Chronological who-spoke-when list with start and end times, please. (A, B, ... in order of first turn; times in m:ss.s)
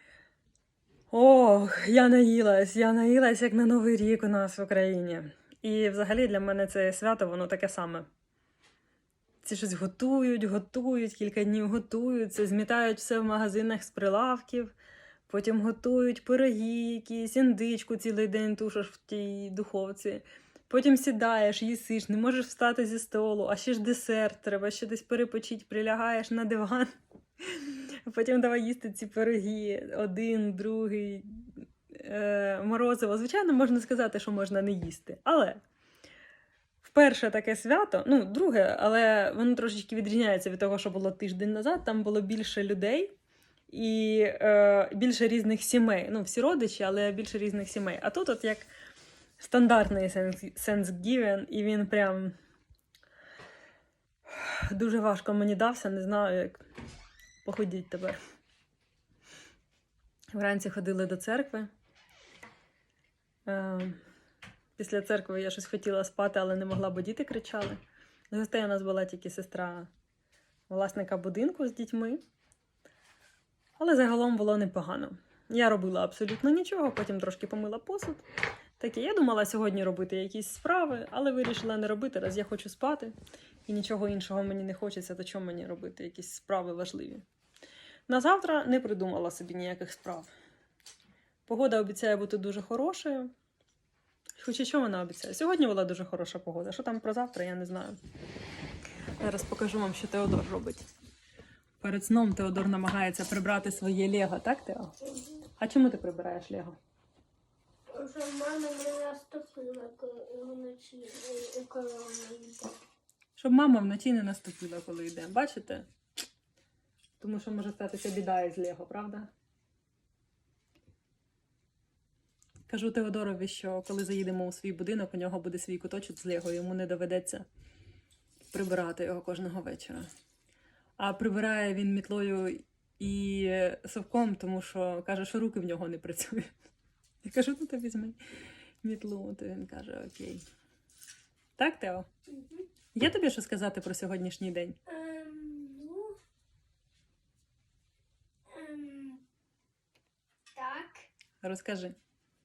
0:01.1-0:08.1 A
0:09.4-0:14.7 A
0:15.3-0:26.9 A
0:27.5-0:35.6 A
0:36.8-0:43.2 A
0:43.7-0:48.7 A
0:49.4-0:52.4 A
0:54.3-0:56.6 A
0:57.4-0:58.2 A
1:00.3-1:01.7 A
1:03.5-1:04.0 A
1:04.8-1:09.9 A
1:10.7-1:12.2 A
1:13.8-1:18.2 A
1:18.8-1:23.2 A
1:23.7-1:27.2 A
1:28.1-1:30.3 A
1:31.5-1:33.3 A
1:34.4-1:38.0 A
1:39.2-1:40.8 A
1:41.8-1:45.0 A
1:45.6-1:46.8 A
1:47.9-1:52.8 B
1:53.4-1:55.9 A
1:57.2-1:59.3 A
2:02.7-2:07.5 A
2:08.5-2:10.1 A
2:11.0-2:16.5 A
2:17.2-2:18.2 A
2:18.8-2:20.4 A
2:21.6-2:22.1 A
2:22.3-2:22.7 B
2:22.9-2:24.8 A
2:24.9-2:26.2 B
2:28.5-2:29.2 B
2:30.5-2:31.1 B
2:31.4-2:32.0 A